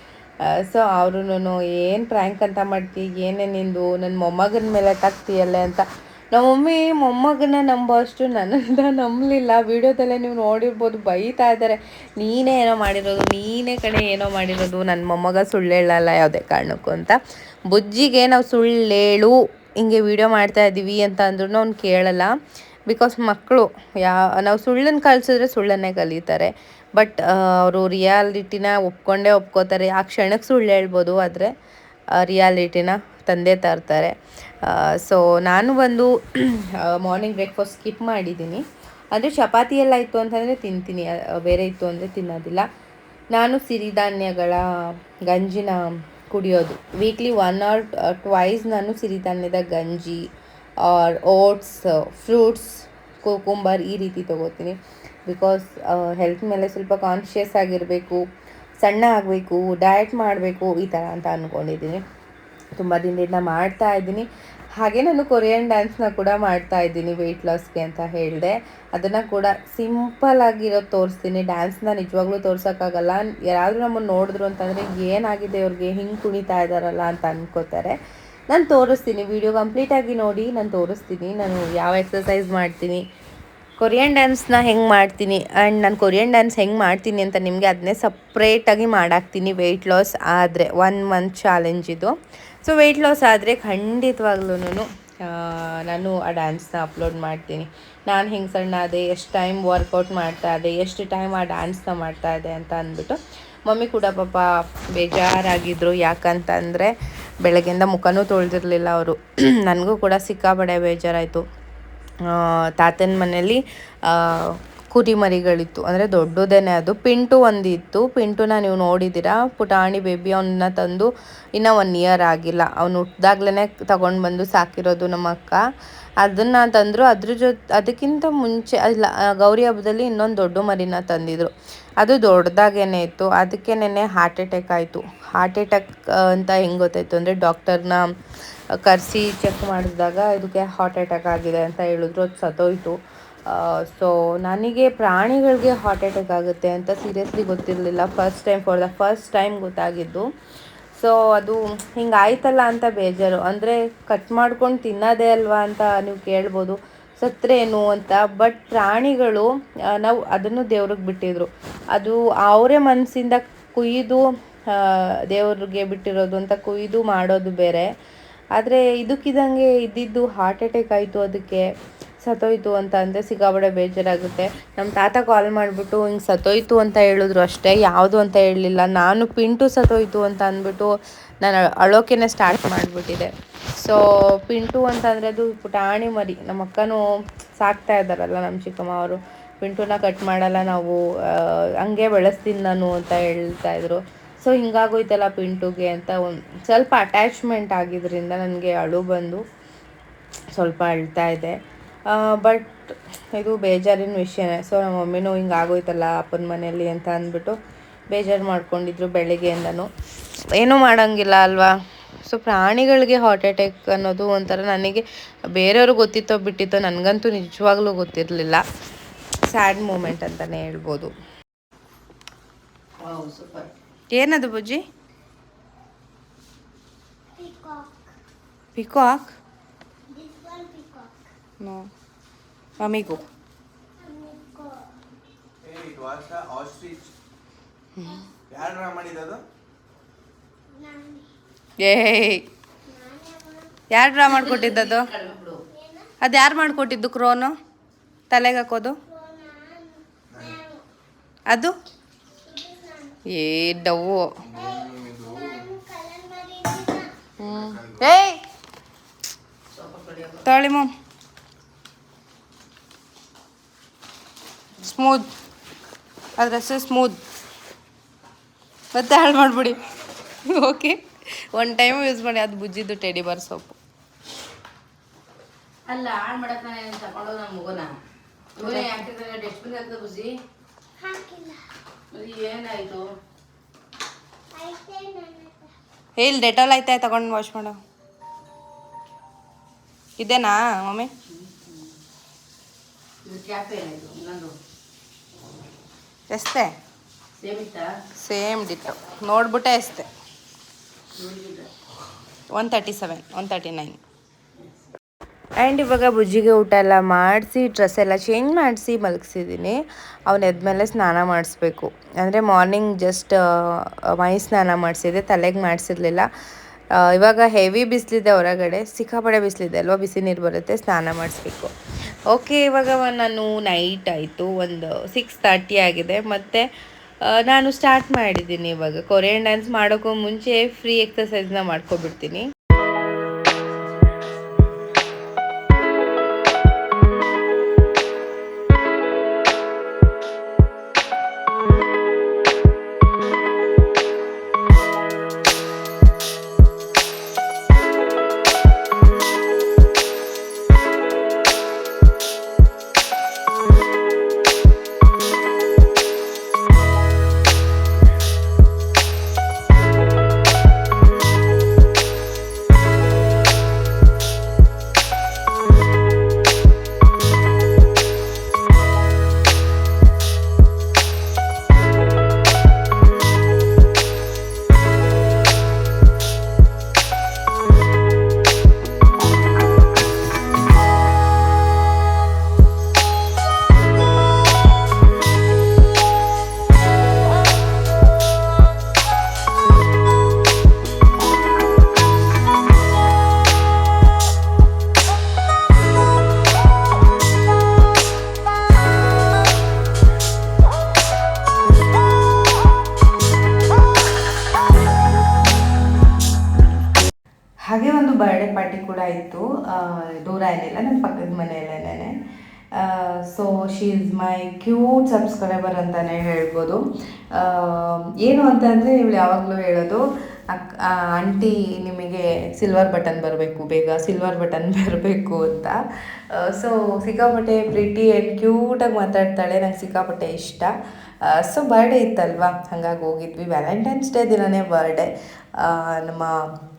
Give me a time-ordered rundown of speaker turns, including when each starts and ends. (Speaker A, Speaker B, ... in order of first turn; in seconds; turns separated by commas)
Speaker A: 0.5-22.4, Speaker A: 22.9-31.5, Speaker A: 32.1-42.6, Speaker A: 43.3-50.3, Speaker A: 50.8-58.2, Speaker A: 58.8-62.0, Speaker A: 62.8-78.0, Speaker A: 78.5-83.0, Speaker A: 83.8-111.4, Speaker A: 112.2-125.6, Speaker A: 126.2-138.1, Speaker A: 138.7-150.3, Speaker A: 150.9-167.9, Speaker A: 168.5-171.7, Speaker A: 172.2-187.0, Speaker A: 187.6-199.4, Speaker A: 200.5-207.6, Speaker A: 208.1-209.9, Speaker A: 210.5-211.7, Speaker A: 212.2-215.0, Speaker A: 215.5-218.6, Speaker A: 219.5-221.1, Speaker B: 223.0-223.7, Speaker A: 224.1-224.8, Speaker C: 227.3-228.1, Speaker A: 228.7-229.3, Speaker C: 230.1-231.2, Speaker A: 231.6-231.9, Speaker A: 232.8-233.2, Speaker C: 234.0-234.9, Speaker D: 235.6-237.1, Speaker A: 237.9-238.3, Speaker D: 238.5-239.4, Speaker C: 240.7-241.3, Speaker A: 241.8-242.4, Speaker C: 242.8-243.8, Speaker A: 243.9-245.1, Speaker B: 244.4-245.7, Speaker C: 245.7-246.1, Speaker A: 246.2-247.5, Speaker A: 248.3-249.0, Speaker C: 249.1-250.8, Speaker C: 252.4-253.2, Speaker A: 253.2-254.5, Speaker C: 254.5-257.1, Speaker D: 254.9-255.2, Speaker A: 257.4-258.4, Speaker B: 259.7-260.4, Speaker A: 260.4-260.9, Speaker A: 264.8-265.3, Speaker A: 266.4-267.2, Speaker A: 268.9-273.8, Speaker B: 275.9-277.9, Speaker B: 278.6-280.4, Speaker A: 278.6-278.9, Speaker C: 281.0-281.7, Speaker B: 282.1-283.1, Speaker C: 284.5-285.7, Speaker A: 286.2-287.8, Speaker A: 290.2-291.1, Speaker B: 291.2-291.9, Speaker B: 293.2-294.5, Speaker A: 296.3-296.8, Speaker B: 297.4-298.0, Speaker A: 298.1-300.1, Speaker B: 301.1-301.7, Speaker A: 302.5-304.0, Speaker A: 305.6-316.3, Speaker A: 316.9-321.7, Speaker A: 322.3-326.7, Speaker A: 327.2-332.5, Speaker A: 407.6-412.1, Speaker A: 412.7-425.8, Speaker A: 426.3-436.5